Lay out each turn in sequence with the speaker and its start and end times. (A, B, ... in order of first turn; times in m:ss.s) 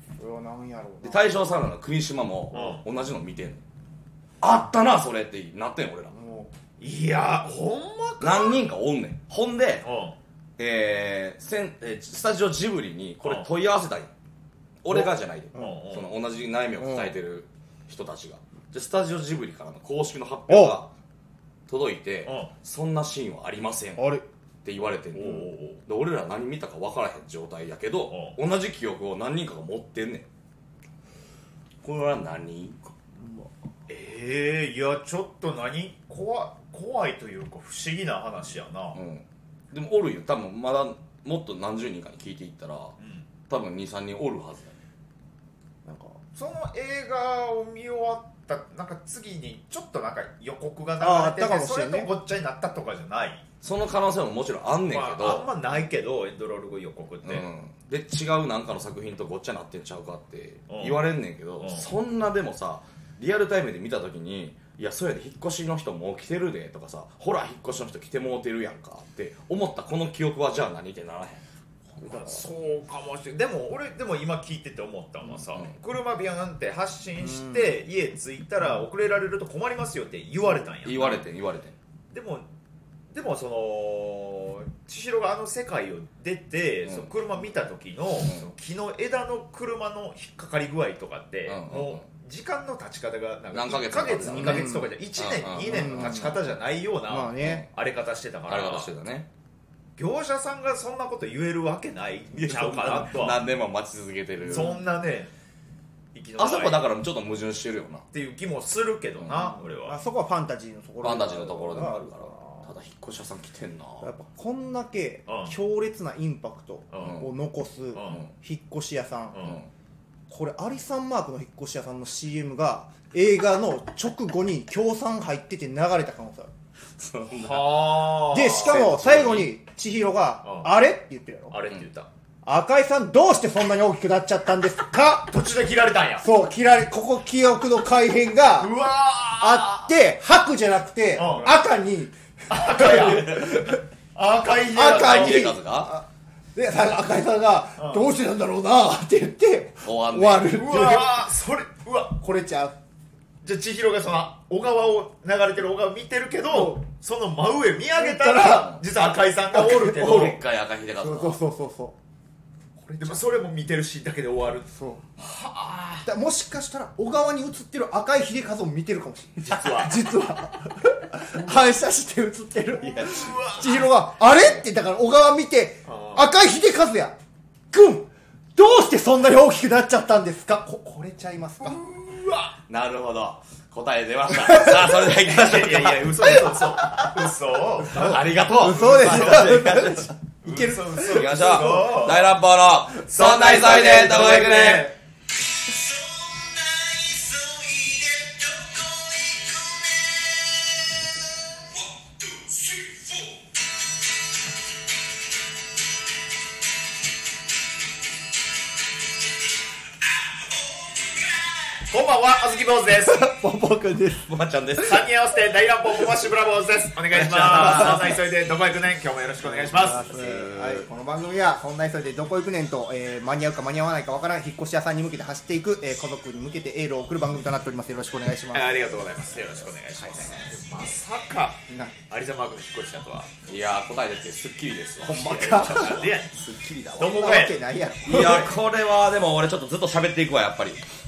0:00.2-0:01.2 A
0:01.0-0:03.6 B
0:02.5-0:02.8 C
0:04.4-0:06.1 B
0:06.1-0:06.5 A
0:06.8-0:08.7 C
0:08.2-0:09.9 B
0:09.8-0:10.2 C
0:10.6-0:14.1 B
0:14.8-0:20.9 B
0:14.9-0:15.7 A
0:15.5-0:16.1 C
0:16.8-0:17.1 A
0:20.5-0:20.8 A
0:21.7-0:30.3 B
0:22.2-0:22.5 C
0:24.0-0:24.2 A
0:25.1-0:25.8 C
0:28.1-0:28.4 C
0:31.8-0:32.9 B
0:33.2-0:33.5 A
0:33.9-0:39.0 C
0:38.9-0:43.0 B
0:43.0-0:43.3 C
0:43.5-0:44.8 B
0:45.8-0:46.2 A
0:46.4-0:53.4 C
0:51.0-0:52.1 A
0:53.6-0:55.5 B
0:54.9-0:57.5 C
0:57.2-1:11.4 B
1:00.7-1:01.1 C
1:01.6-1:01.9 C
1:12.0-1:21.2 C
1:17.2-1:17.7 A
1:20.8-1:21.8 B
1:22.1-1:22.5 C
1:23.1-1:38.9 C
1:26.8-1:27.1 B
1:28.3-1:28.5 B
1:31.5-1:32.0 B
1:33.5-1:36.4 B
1:34.2-1:34.9 A
1:35.6-1:36.4 A
1:37.1-1:37.6 A
1:37.4-1:37.7 B
1:38.5-1:39.3 B
1:40.0-1:43.4 C
1:42.3-1:44.8 B
1:44.5-1:44.8 A
1:44.5-1:45.3 C
1:46.1-1:46.8 C
1:46.4-1:48.1 B
1:48.1-1:50.0 C
1:49.2-1:49.6 B
1:49.8-1:52.7 A
1:51.0-1:54.1 B
1:54.0-1:59.5 A
1:55.3-1:55.6 C
1:56.9-1:57.2 C
1:57.0-1:57.3 B
1:57.9-1:58.2 C
1:59.3-1:59.6 C
1:59.4-1:59.7 B
2:00.3-2:06.5 A
2:07.0-2:09.5 B
2:07.4-2:08.9 C
2:08.3-2:11.6 A
2:10.4-2:10.7 C
2:11.5-2:12.1 C
2:12.4-2:15.3 A
2:15.2-2:16.3 C
2:16.2-2:18.8 A
2:18.6-2:19.9 C
2:19.4-2:23.8 A
2:21.2-2:21.6 C
2:22.5-2:23.6 C
2:23.1-2:23.4 B
2:24.2-2:25.5 C
2:24.7-2:31.3 A
2:24.8-2:26.0 B
2:27.8-2:28.1 C
2:29.8-2:30.6 B
2:30.5-2:32.2 C
2:32.2-2:32.8 A
2:33.4-2:40.4 C
2:36.5-2:36.8 A
2:37.9-2:38.8 A
2:38.5-2:38.8 B
2:39.5-2:40.3 A
2:39.8-2:41.4 B
2:41.0-2:42.0 A
2:43.0-2:44.7 C
2:44.7-2:45.1 A
2:45.2-2:46.0 B
2:46.0-2:57.2 A
2:49.4-2:50.1 C
2:52.8-2:53.7 B
2:53.0-2:54.0 C
2:55.9-2:56.3 C
2:57.7-3:01.8 A
3:01.6-3:02.6 C
3:02.7-3:06.5 B
3:05.1-3:09.6 C
3:07.9-3:10.1 B
3:07.9-3:11.9 A
3:10.4-3:12.3 C
3:11.0-3:14.9 B
3:13.1-3:15.0 C
3:16.7-3:19.0 C
3:22.4-3:23.3 C
3:31.8-3:33.3 C
3:33.0-3:34.3 A
3:34.3-3:35.1 B
3:34.8-3:40.1 C
3:37.1-3:38.2 B
3:37.6-3:38.0 A
3:39.6-3:40.9 B
3:39.7-3:48.9 A
3:48.5-3:53.3 C
3:50.0-3:50.5 B
3:51.7-3:52.0 A
3:53.5-3:57.3 B
3:55.0-3:56.1 A
3:55.0-3:56.4 C
3:57.0-3:57.6 C
3:57.0-3:58.5 A
3:58.0-4:00.8 B
3:58.1-3:58.4 C